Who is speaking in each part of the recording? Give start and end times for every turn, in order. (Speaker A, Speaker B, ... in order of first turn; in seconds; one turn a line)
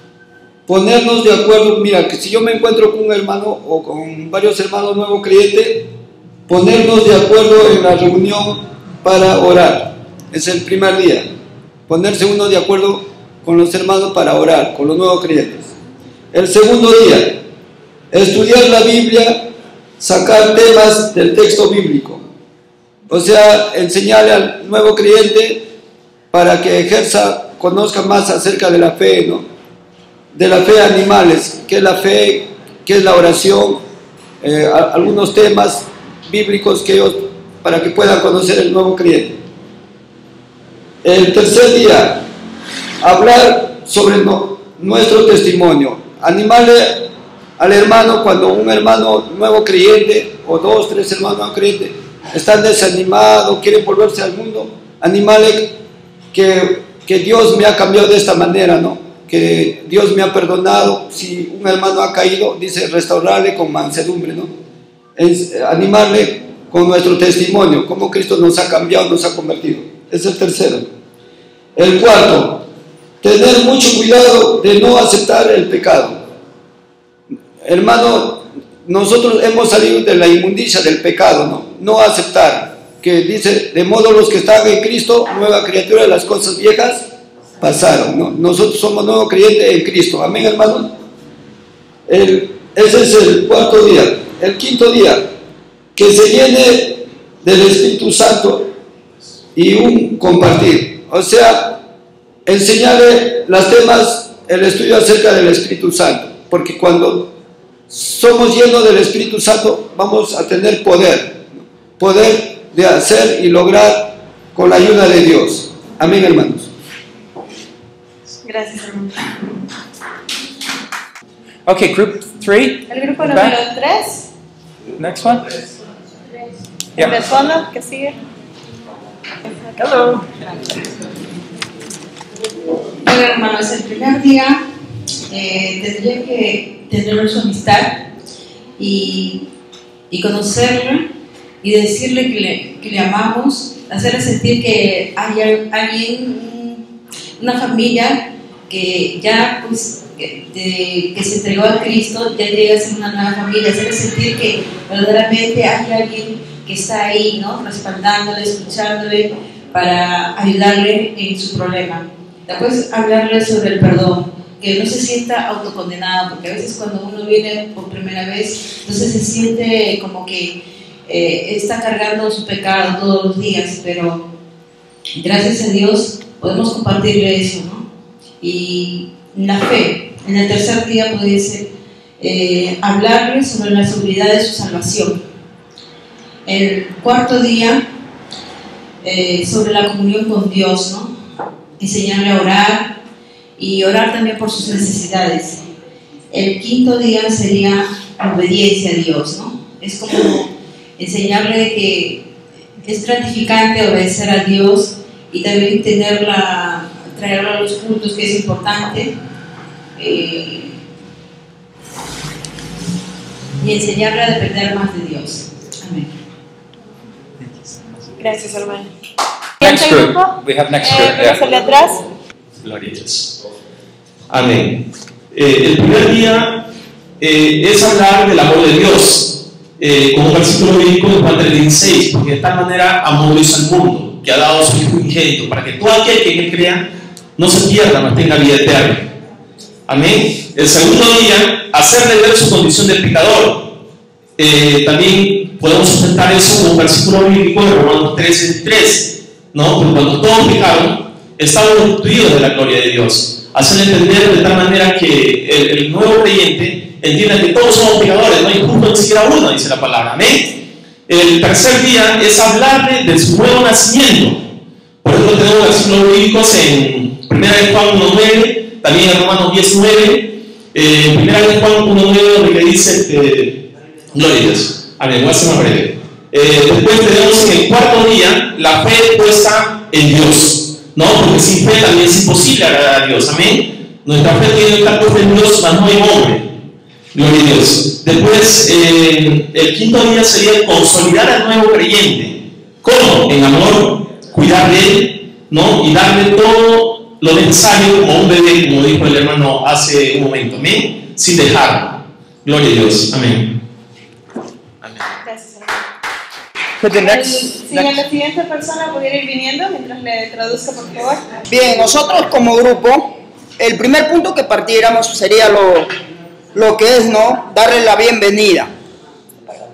Speaker A: 0.7-5.9
Speaker A: 6.5-11.3
Speaker A: 11.9-15.8
Speaker A: 16.3-17.4
Speaker A: 18.1-19.5
Speaker A: 20.0-22.2
Speaker A: 23.1-25.6
Speaker A: 26.3-29.4
Speaker A: 30.3-33.8
Speaker A: 34.4-39.4
Speaker A: 41.0-42.2
Speaker A: 43.0-55.8
Speaker A: 56.3-64.5
Speaker A: 65.2-70.9
Speaker A: 71.8-72.7
Speaker A: 73.2-76.2
Speaker A: 77.6-87.1
Speaker A: 87.6-90.9
Speaker A: 92.1-95.3
Speaker A: 96.0-98.7
Speaker A: 99.5-101.8
Speaker A: 102.5-107.3
Speaker A: 107.9-116.7
Speaker B: 118.4-119.2
Speaker C: 121.7-123.5
Speaker B: 122.9-124.3
Speaker C: 125.0-125.5
Speaker B: 127.0-128.2
Speaker D: 133.0-134.6
Speaker D: 135.3-138.1
Speaker D: 138.8-139.5
Speaker D: 140.1-141.1
Speaker D: 141.6-146.8
Speaker D: 147.4-174.2
Speaker D: 175.2-177.8
Speaker D: 178.4-185.2
Speaker D: 186.5-187.8
Speaker D: 189.0-191.1
Speaker D: 191.8-193.0
Speaker D: 193.6-195.6
Speaker D: 196.3-202.3
Speaker D: 202.8-209.1
Speaker D: 210.0-210.8
Speaker D: 213.6-216.1
Speaker C: 217.4-217.7
Speaker B: 218.2-218.9
Speaker C: 219.6-221.4
Speaker B: 219.6-222.1
Speaker E: 222.6-223.4
Speaker E: 224.3-226.7
Speaker E: 227.2-239.1
Speaker E: 239.9-243.7
Speaker E: 244.4-264.5
Speaker E: 265.0-286.6
Speaker E: 287.1-303.6
Speaker E: 304.8-305.1
Speaker B: 305.2-305.9
Speaker C: 306.8-307.9
Speaker B: 306.9-311.4
Speaker F: 311.5-315.9
Speaker F: 316.5-318.7